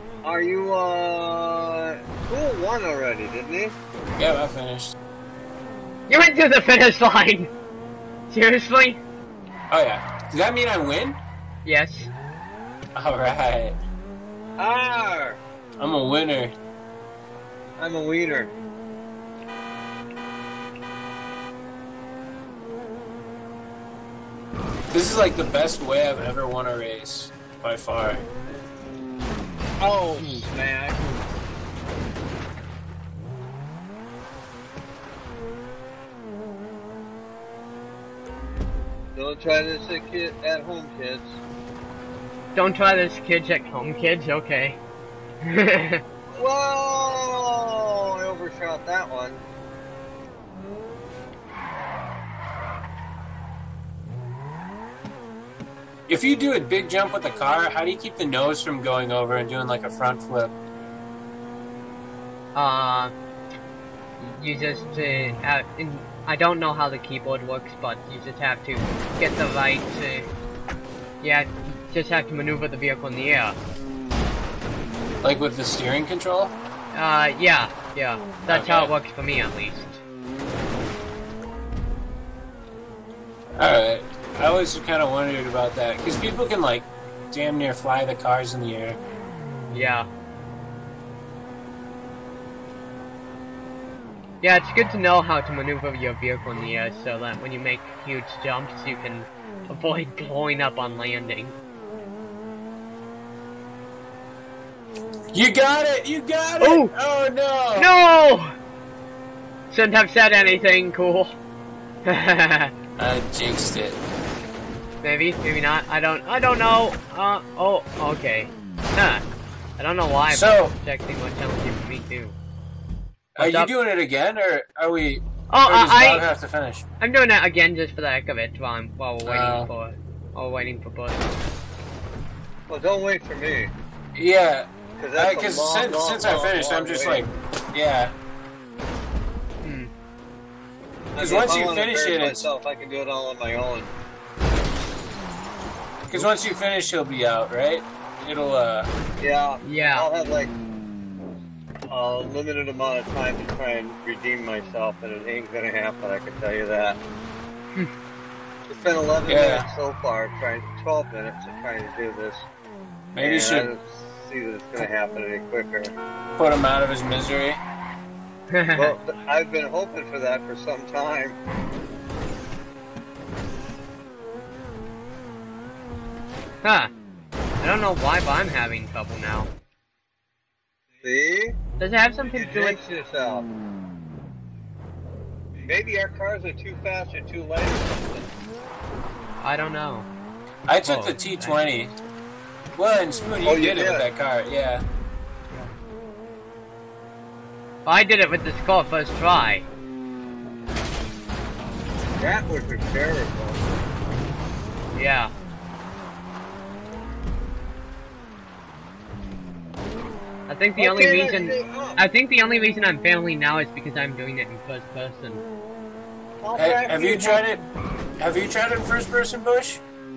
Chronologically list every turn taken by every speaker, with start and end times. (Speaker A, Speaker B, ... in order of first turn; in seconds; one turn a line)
Speaker A: 0.2-3.8
Speaker B: 4.2-5.0
Speaker C: 6.1-7.5
Speaker C: 8.3-9.0
Speaker B: 9.7-11.2
Speaker C: 11.7-12.1
Speaker B: 12.9-13.8
Speaker A: 14.6-15.4
Speaker B: 15.8-16.5
Speaker A: 17.8-18.6
Speaker B: 24.9-28.2
Speaker A: 29.8-31.0
Speaker C: 30.2-30.4
Speaker A: 39.1-41.4
Speaker C: 42.5-44.8
Speaker C: 45.4-46.0
Speaker A: 46.3-49.4
Speaker B: 56.1-60.5
Speaker C: 62.5-63.1
Speaker C: 64.2-70.3
Speaker C: 71.2-73.6
Speaker B: 75.2-76.5
Speaker C: 76.9-80.0
Speaker B: 78.5-78.9
Speaker B: 83.6-89.0
Speaker C: 89.7-90.1
Speaker C: 94.4-101.6
Speaker B: 105.3-107.9
Speaker C: 106.6-106.9
Speaker C: 107.8-108.5
Speaker C: 109.7-111.4
Speaker C: 112.1-112.7
Speaker B: 113.0-114.0
Speaker C: 115.0-119.2
Speaker C: 119.8-122.4
Speaker B: 120.3-120.7
Speaker B: 123.4-126.8
Speaker C: 123.4-123.7
Speaker C: 125.5-126.3
Speaker C: 127.0-131.3
Speaker B: 129.2-129.7
Speaker A: 132.7-133.7
Speaker B: 134.2-138.1
Speaker A: 135.0-137.3
Speaker C: 139.6-139.9
Speaker A: 141.1-143.9
Speaker B: 141.2-142.5
Speaker A: 146.1-146.5
Speaker B: 146.1-148.9
Speaker A: 149.2-150.5
Speaker C: 149.6-150.1
Speaker A: 151.9-157.0
Speaker A: 158.7-162.5
Speaker B: 159.3-159.7
Speaker B: 163.1-163.7
Speaker A: 163.2-165.9
Speaker B: 166.4-167.6
Speaker C: 168.5-168.9
Speaker A: 168.7-171.4
Speaker C: 176.6-176.9
Speaker C: 177.6-179.5
Speaker A: 181.0-181.6
Speaker C: 181.8-182.8
Speaker A: 182.3-183.5
Speaker A: 185.6-188.3
Speaker C: 189.4-190.1
Speaker B: 190.7-191.9
Speaker C: 190.8-191.6
Speaker B: 192.8-194.8
Speaker A: 193.4-194.1
Speaker C: 197.8-199.7
Speaker A: 202.2-203.6
Speaker C: 204.9-205.3
Speaker C: 210.5-215.4
Speaker A: 210.8-212.0
Speaker A: 216.4-217.4
Speaker B: 216.6-217.6
Speaker B: 218.2-219.8